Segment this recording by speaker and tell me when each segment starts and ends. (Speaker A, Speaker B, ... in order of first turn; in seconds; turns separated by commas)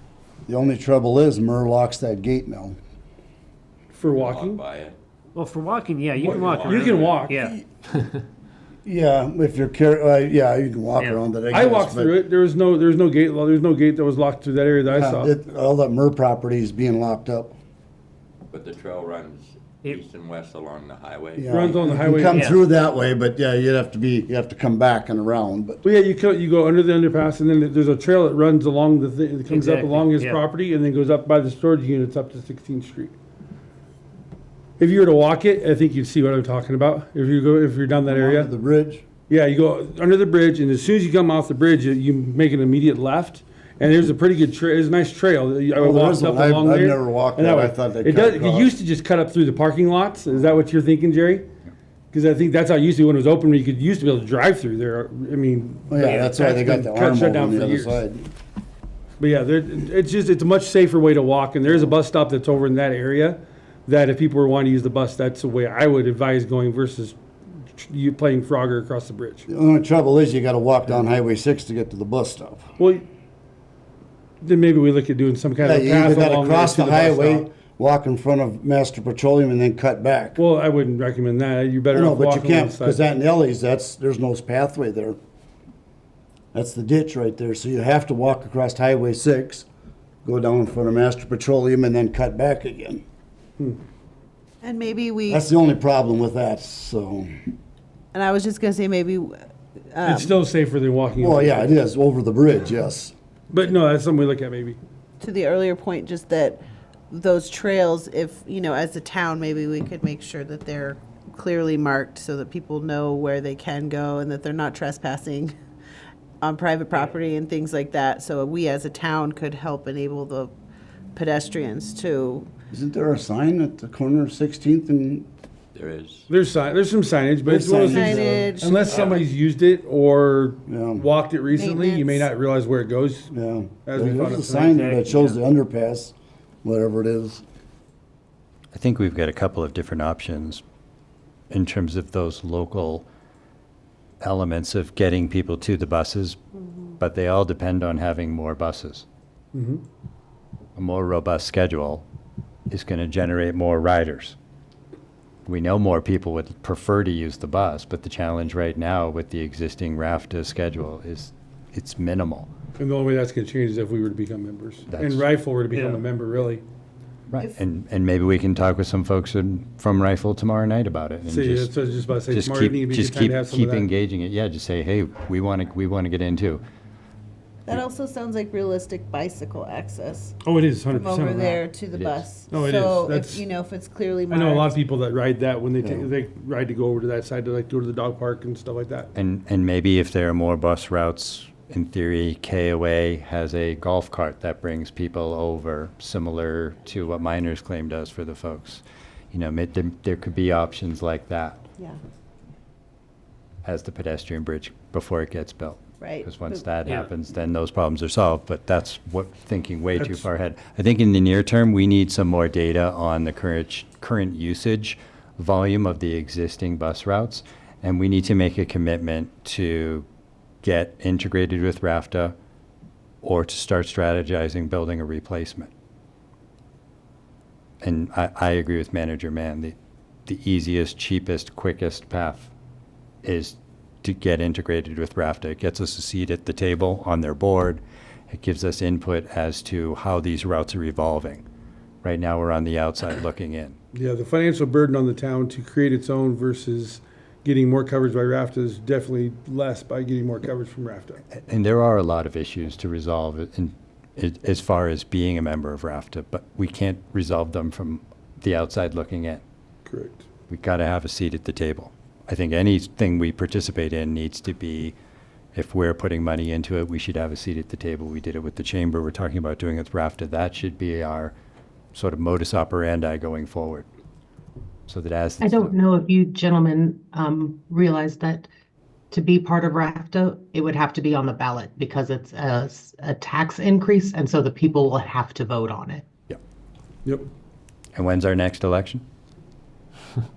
Speaker A: 0.5-2.8, Speaker B: 3.9-4.6, Speaker C: 4.0-5.0, Speaker D: 5.4-7.5, Speaker B: 6.2-7.5, Speaker C: 6.2-7.3, Speaker A: 8.8-12.1, Speaker B: 11.5-15.3, Speaker A: 14.9-17.6, Speaker C: 18.5-21.7, Speaker A: 21.4-25.8, Speaker B: 21.5-22.5, Speaker B: 25.8-33.1, Speaker E: 29.5-30.1, Speaker B: 34.8-38.5, Speaker A: 38.1-39.0, Speaker B: 39.3-51.5, Speaker A: 45.8-48.7, Speaker B: 52.1-58.0, Speaker A: 55.9-58.3, Speaker B: 59.2-67.2, Speaker B: 67.7-69.5, Speaker A: 69.5-72.7, Speaker B: 72.8-73.0, Speaker B: 74.4-77.5, Speaker A: 75.6-80.4, Speaker B: 80.4-83.0, Speaker A: 81.9-85.2, Speaker A: 86.5-89.7, Speaker A: 90.2-93.0, Speaker F: 94.6-95.4, Speaker A: 95.3-97.3, Speaker F: 98.1-99.4, Speaker F: 99.9-100.3, Speaker B: 100.0-101.8, Speaker A: 101.2-103.1, Speaker B: 103.5-104.8, Speaker F: 105.2-115.5, Speaker F: 116.4-120.5, Speaker F: 121.1-122.5, Speaker A: 122.7-125.3, Speaker C: 125.7-126.3, Speaker B: 126.3-133.3, Speaker A: 127.5-128.5, Speaker F: 127.8-129.2, Speaker A: 130.7-131.1, Speaker F: 131.5-132.3, Speaker A: 133.3-137.4, Speaker B: 133.9-134.9, Speaker G: 138.7-140.6, Speaker G: 141.5-143.1, Speaker G: 144.2-146.4, Speaker G: 147.0-149.1, Speaker B: 149.5-149.8, Speaker G: 150.8-152.1, Speaker G: 152.7-154.4, Speaker G: 155.5-162.5, Speaker B: 162.8-166.6, Speaker G: 164.9-165.2, Speaker G: 167.3-171.7, Speaker B: 171.2-173.9, Speaker G: 172.3-176.6, Speaker F: 177.7-180.3, Speaker B: 180.4-181.6, Speaker F: 180.9-184.8, Speaker G: 181.9-182.3, Speaker B: 182.5-183.4, Speaker B: 184.3-189.1, Speaker G: 189.2-201.6, Speaker G: 203.6-220.1, Speaker F: 206.0-206.6, Speaker B: 210.0-210.2, Speaker G: 220.6-222.3, Speaker G: 223.2-225.7, Speaker G: 227.8-229.8, Speaker G: 230.3-232.5, Speaker G: 233.2-241.4, Speaker G: 242.0-243.8, Speaker B: 243.9-251.2, Speaker G: 251.4-259.4, Speaker B: 259.9-260.2, Speaker G: 260.5-264.9, Speaker G: 265.5-271.3, Speaker G: 271.9-273.9, Speaker G: 274.9-275.8, Speaker E: 275.4-278.5, Speaker E: 279.1-286.0, Speaker G: 287.9-289.0